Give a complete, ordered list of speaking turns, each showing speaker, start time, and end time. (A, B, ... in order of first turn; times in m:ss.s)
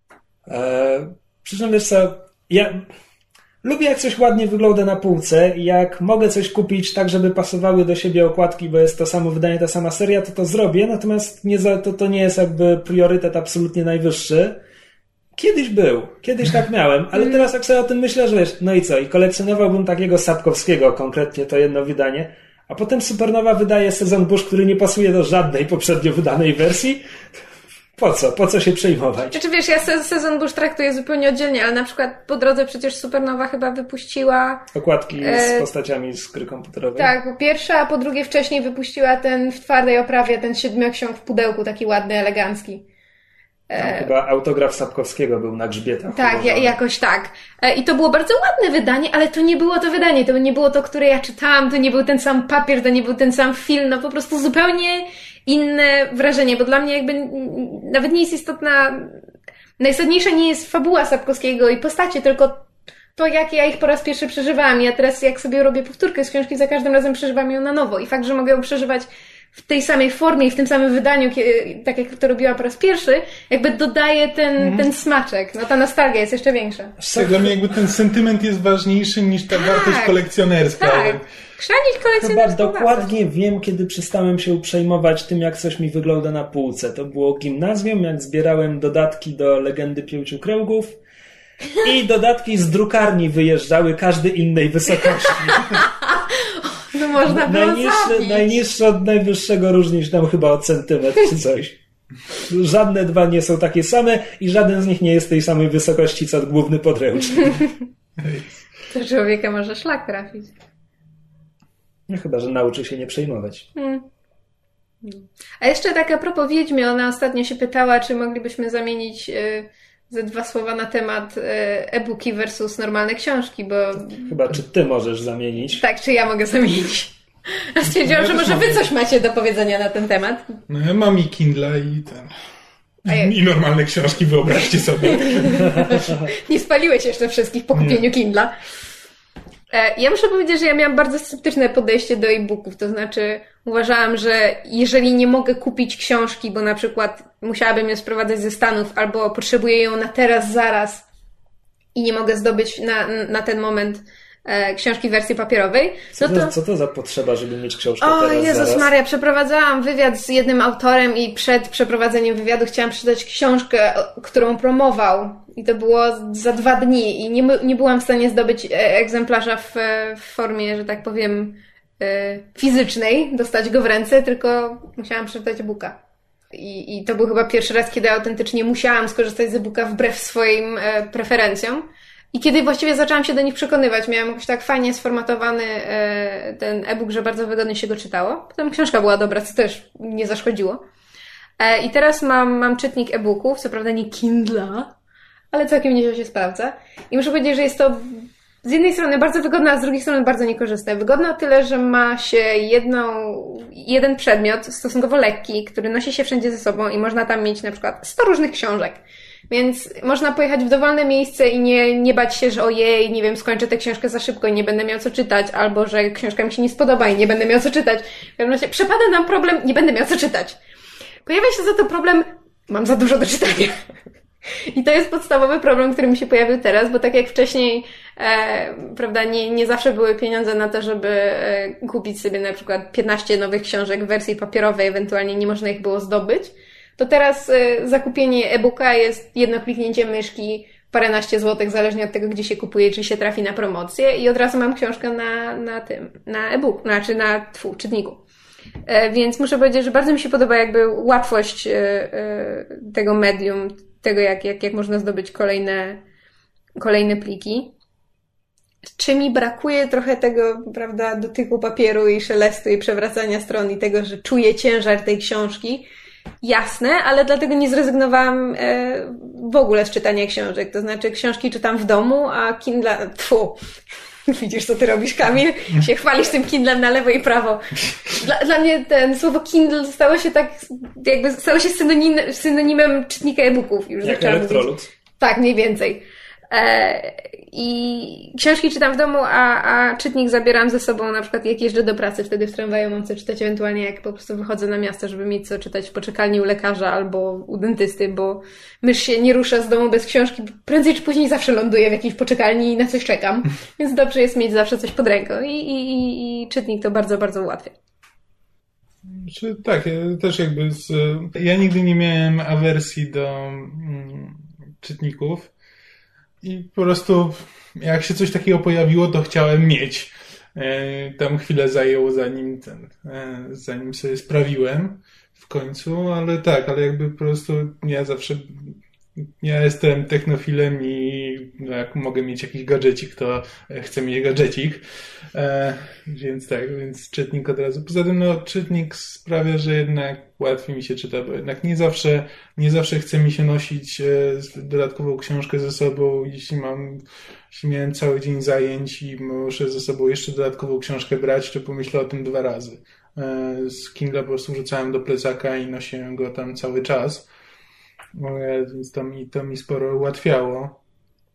0:00.5-0:02.8 A
0:03.6-0:14.6 A
0:15.4-0:27.0 A
0:28.0-0:29.4 A
0:29.3-0:34.7 B
0:34.8-0:37.1 A
0:35.2-0:35.7 B
0:37.0-0:42.8 B
0:43.7-0:44.1 B
0:43.8-0:46.8 A
0:46.1-0:59.2 B
0:59.8-1:16.9 B
1:17.0-1:17.6 A
1:17.2-1:21.2 C
1:19.5-1:20.2 B
1:20.8-1:23.1 B
1:22.2-1:31.0 A
1:31.8-1:35.8 A
1:35.6-1:38.6 B
1:37.2-1:41.8 A
1:42.3-1:47.7 A
1:48.2-1:48.6 C
1:48.9-1:50.5 B
1:52.1-1:53.7 A
1:53.8-1:54.0 B
1:55.0-2:04.5 B
2:04.1-2:05.8 A
2:05.8-2:10.5 B
2:07.8-2:08.9 C
2:10.7-2:12.3 C
2:13.0-2:15.9 C
2:13.1-2:13.3 B
2:15.1-2:18.5 B
2:17.7-2:18.1 C
2:19.7-2:31.0 B
2:32.0-2:36.5 B
2:36.2-2:38.9 A
2:38.0-2:56.0 B
2:56.5-3:10.8 B
3:11.6-3:14.9 B
3:15.5-3:40.6 B
3:41.2-3:43.8 B
3:44.7-4:08.2 B
4:08.9-4:16.0 B
4:16.8-4:17.7 B
4:19.0-4:25.9 B
4:26.4-4:33.6 B
4:34.3-5:07.8 B
4:44.0-4:44.9 A
5:09.1-5:15.5 C
5:16.4-5:28.8 C
5:29.4-5:57.3 C
5:58.1-6:00.8 C